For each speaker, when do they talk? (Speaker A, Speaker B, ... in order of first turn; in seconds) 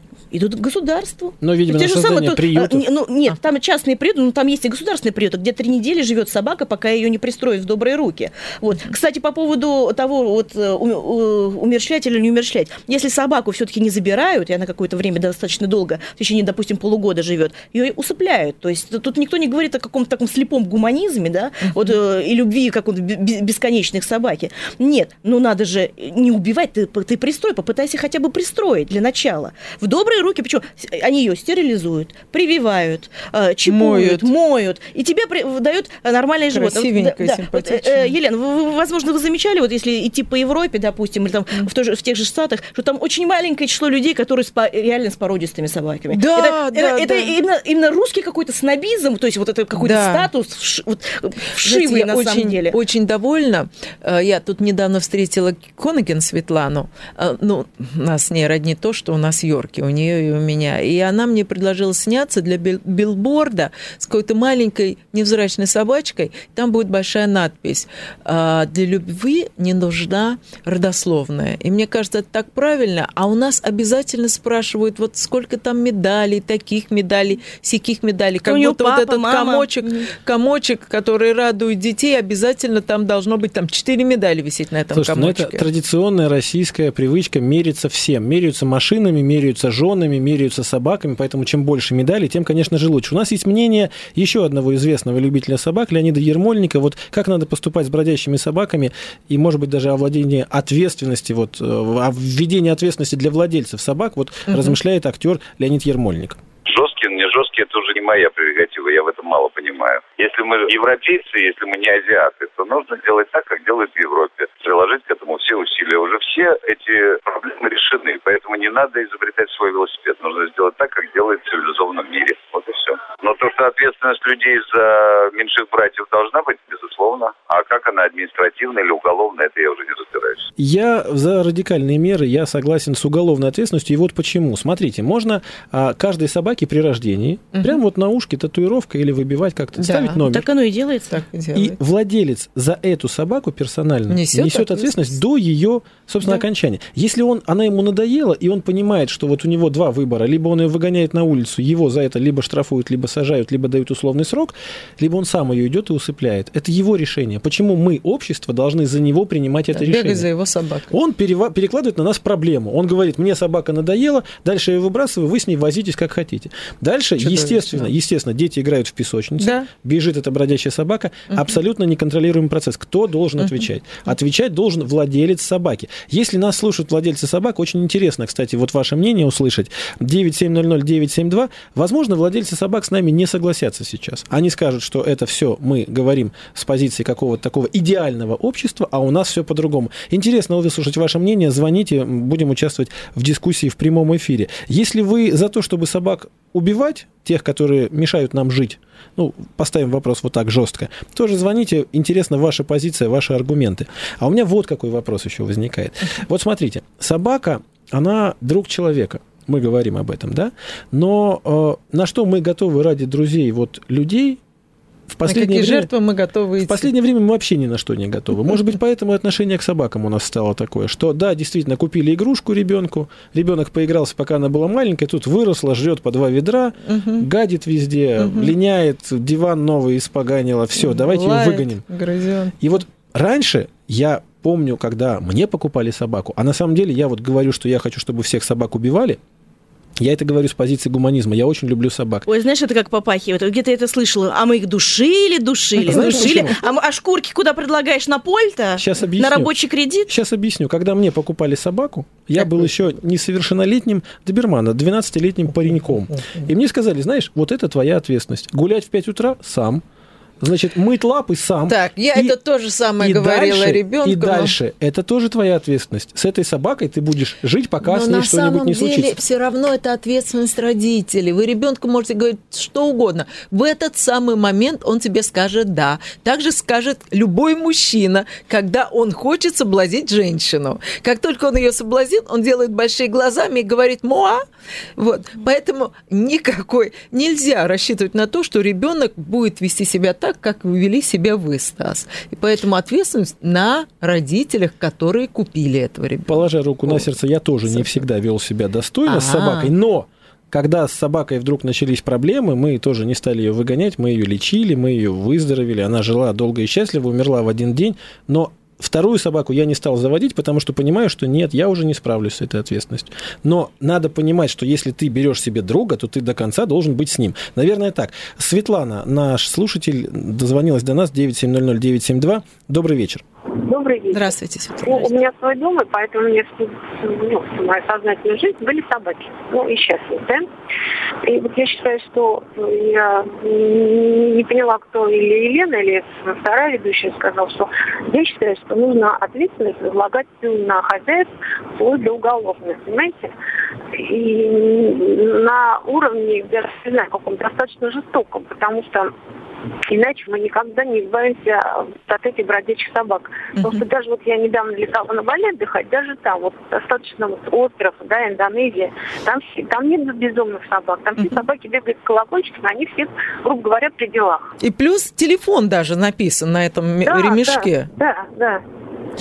Speaker A: 0.3-52.8, 78.4-80.1, 140.3-141.2, 242.3-250.1
Speaker B: 1.4-2.9, 84.9-106.4, 130.6-140.5, 141.5-160.3, 160.9-214.4, 215.1-215.9, 216.7-231.8, 232.6-239.2, 240.0-242.3, 245.8-246.5, 248.8-249.5, 250.1-259.8, 260.4-262.4, 263.0-269.2, 296.3-323.2
Speaker C: 33.7-34.3, 36.5-38.2, 46.1-47.4, 49.8-50.3, 51.6-85.7, 104.5-104.8, 137.5-137.8, 139.8-140.2, 141.1-141.8, 144.1-145.1, 159.7-160.9, 167.2-167.9, 169.4-169.7, 215.3-216.9, 226.8-227.3, 228.2-228.5, 230.8-232.6, 245.9-246.5, 261.7-264.6, 267.8-284.4, 285.0-297.1, 299.1-299.7, 324.1-325.1, 353.6-353.8, 364.6-367.9
Speaker D: 106.7-130.5
Speaker E: 323.6-330.5, 331.2-343.3, 343.9-349.1, 349.9-364.5, 367.1-368.6